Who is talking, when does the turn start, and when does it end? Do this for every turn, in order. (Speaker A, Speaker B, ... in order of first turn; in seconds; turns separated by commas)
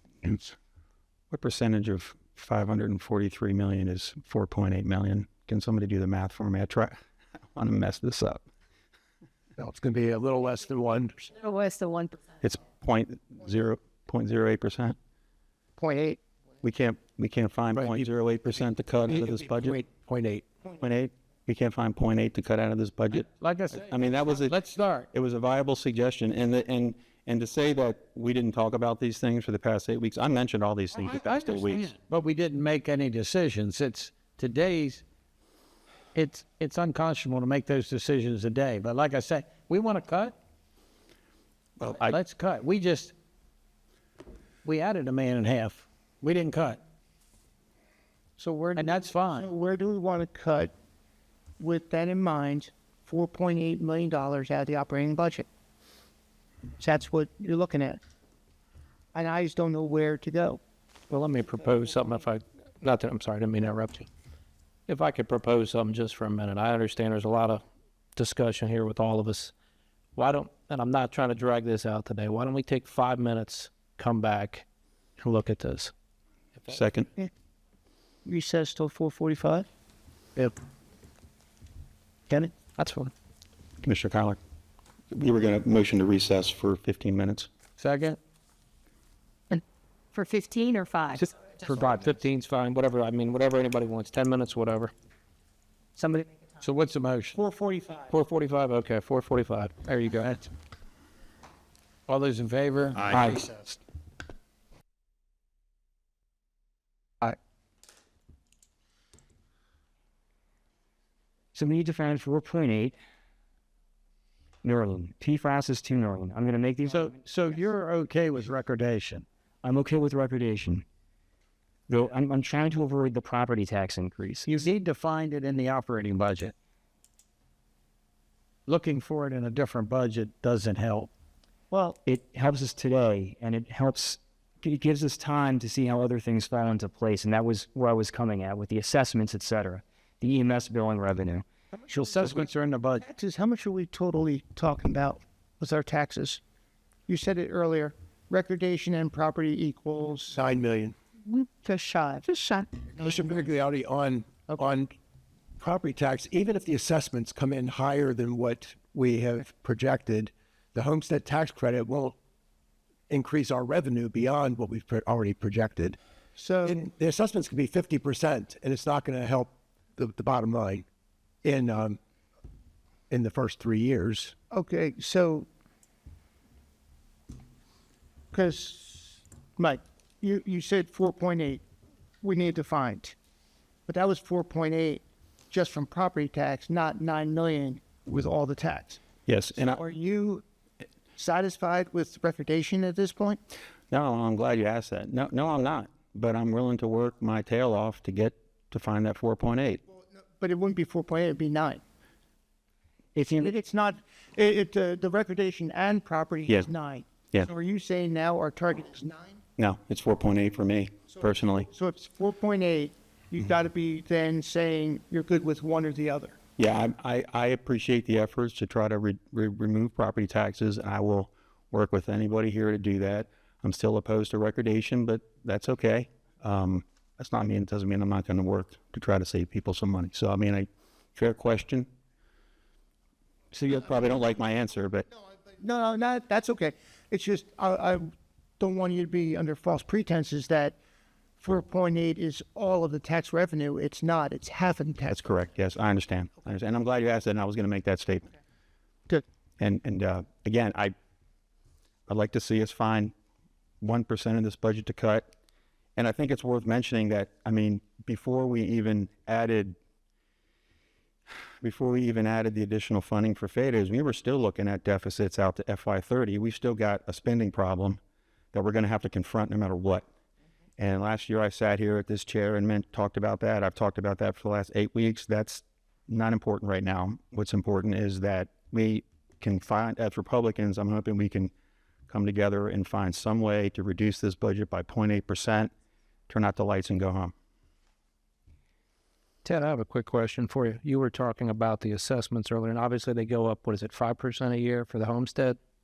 Speaker A: 0.2-0.5, Speaker A: 1.3-6.9, Speaker A: 7.5-8.4, Speaker B: 9.6-11.4, Speaker C: 11.4-12.2, Speaker A: 12.4-14.9, Speaker D: 15.8-16.2, Speaker A: 16.6-19.8, Speaker B: 17.7-18.1, Speaker B: 19.1-20.4, Speaker A: 20.8-24.6, Speaker E: 23.4-25.1, Speaker A: 25.1-31.9, Speaker E: 31.1-35.0, Speaker E: 36.1-40.3, Speaker A: 41.8-42.2, Speaker E: 42.0-43.1, Speaker E: 44.6-46.8, Speaker D: 48.4-50.7, Speaker E: 48.7-49.5, Speaker D: 51.6-55.5, Speaker D: 56.8-58.0, Speaker D: 59.1-60.6, Speaker F: 61.1-64.1, Speaker F: 64.9-67.6, Speaker F: 68.2-69.5, Speaker F: 70.2-74.6, Speaker F: 75.2-75.9, Speaker A: 76.7-77.1, Speaker D: 78.2-79.7, Speaker F: 82.8-83.1, Speaker A: 83.8-84.4, Speaker A: 85.1-87.5, Speaker E: 87.8-88.2, Speaker C: 90.1-91.2, Speaker F: 91.2-94.9, Speaker E: 96.6-97.4, Speaker D: 97.3-98.1, Speaker F: 98.1-100.2, Speaker E: 102.1-103.5, Speaker F: 103.1-103.4, Speaker G: 111.5-113.0, Speaker G: 114.6-117.1, Speaker E: 116.8-119.2, Speaker G: 119.6-120.8, Speaker G: 121.9-124.5, Speaker E: 124.4-126.5, Speaker E: 128.7-131.1, Speaker D: 131.7-132.0, Speaker G: 132.0-141.4, Speaker E: 141.8-143.0, Speaker D: 143.0-146.4, Speaker D: 147.1-150.4, Speaker B: 150.3-150.9, Speaker D: 151.2-153.0, Speaker B: 152.9-154.9, Speaker B: 155.6-162.2, Speaker B: 163.1-166.0, Speaker D: 166.4-166.8, Speaker B: 166.6-170.8, Speaker B: 171.4-172.0, Speaker B: 173.1-174.3, Speaker D: 174.5-175.5, Speaker D: 178.3-181.6, Speaker D: 182.2-183.1, Speaker D: 183.9-189.0, Speaker A: 189.3-189.8, Speaker D: 189.7-190.4, Speaker D: 191.2-193.4, Speaker A: 193.9-199.8, Speaker D: 200.2-201.8, Speaker G: 203.1-203.5, Speaker D: 203.4-209.4, Speaker A: 209.6-211.7, Speaker D: 211.7-216.4, Speaker A: 216.6-231.9, Speaker A: 233.5-235.1, Speaker D: 235.6-240.8, Speaker D: 241.4-245.2, Speaker A: 245.1-248.3, Speaker A: 249.6-250.9, Speaker A: 252.1-253.1, Speaker A: 253.8-255.3, Speaker A: 255.9-259.8, Speaker A: 261.6-268.0, Speaker A: 268.5-270.0, Speaker A: 270.8-281.5, Speaker A: 282.1-285.7, Speaker A: 286.3-287.3, Speaker F: 289.4-295.6